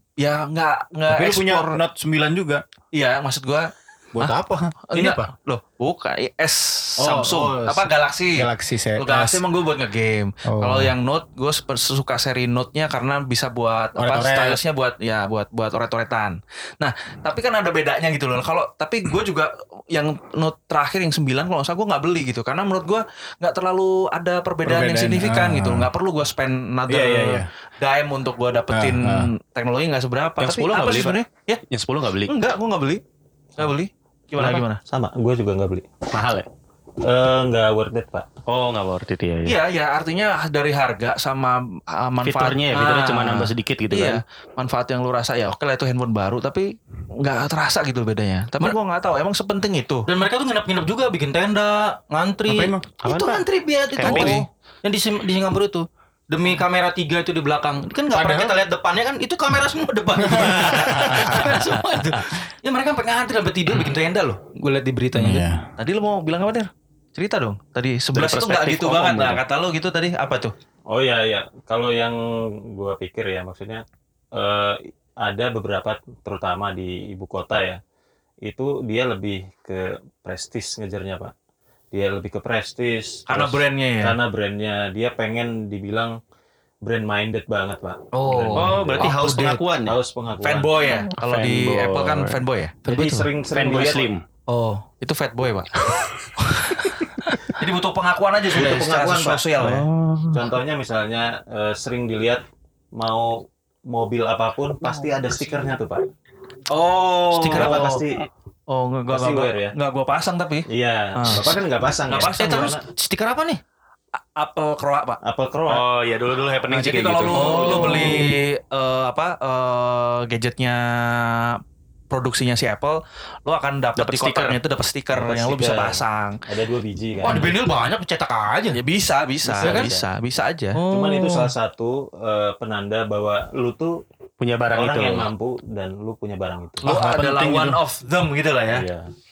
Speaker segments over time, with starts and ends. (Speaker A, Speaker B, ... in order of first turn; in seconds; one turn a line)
Speaker A: 0.2-1.8
Speaker B: 1.1-2.6
Speaker A: 2.9-4.4
Speaker B: 4.2-5.3
Speaker A: 4.9-31.6
Speaker B: 7.0-9.4
Speaker B: 10.5-10.9
Speaker B: 14.0-14.6
Speaker B: 24.6-25.9
Speaker B: 26.9-27.5
Speaker B: 28.7-29.3
Speaker C: 30.4-32.3
Speaker A: 32.3-33.0
Speaker A: 33.6-34.8
Speaker D: 34.9-35.9
Speaker C: 36.1-36.5
Speaker D: 37.0-38.3
Speaker C: 38.5-39.6
Speaker A: 39.4-50.1
Speaker C: 42.2-44.2
Speaker E: 50.1-65.5
Speaker B: 52.5-52.9
Speaker C: 53.0-54.4
Speaker A: 54.0-54.4
Speaker B: 58.1-58.6
Speaker B: 60.2-61.6
Speaker A: 60.7-61.0
Speaker B: 65.1-65.7
Speaker A: 65.8-70.5
Speaker C: 68.1-69.4
Speaker D: 70.9-77.8
Speaker D: 78.4-81.3
Speaker D: 81.9-86.2
Speaker A: 83.3-84.2
Speaker D: 86.8-89.3
Speaker E: 88.1-89.6
Speaker C: 88.5-90.0
Speaker D: 89.8-90.9
Speaker A: 90.4-92.8
Speaker C: 91.0-92.4
Speaker E: 92.9-93.3
Speaker D: 92.9-94.1
Speaker C: 93.5-94.2
Speaker E: 94.5-94.8
Speaker A: 95.0-99.9
Speaker D: 98.5-99.8
Speaker C: 99.6-100.4
Speaker D: 100.3-102.4
Speaker D: 103.0-106.1
Speaker A: 106.7-108.0
Speaker E: 107.3-107.9
Speaker D: 107.5-108.3
Speaker A: 108.7-112.7
Speaker D: 109.1-109.7
Speaker D: 110.7-112.8
Speaker E: 112.2-113.6
Speaker A: 114.4-115.2
Speaker D: 115.2-115.9
Speaker C: 115.7-118.3
Speaker A: 116.7-126.4
Speaker E: 117.3-118.2
Speaker C: 124.0-124.6
Speaker D: 125.1-127.6
Speaker E: 127.2-128.8
Speaker A: 128.7-131.5
Speaker D: 129.4-130.1
Speaker E: 129.6-129.9
Speaker D: 130.8-134.0
Speaker C: 134.4-135.3
Speaker D: 134.7-136.9
Speaker B: 136.8-137.8
Speaker A: 136.8-138.9
Speaker D: 138.7-139.1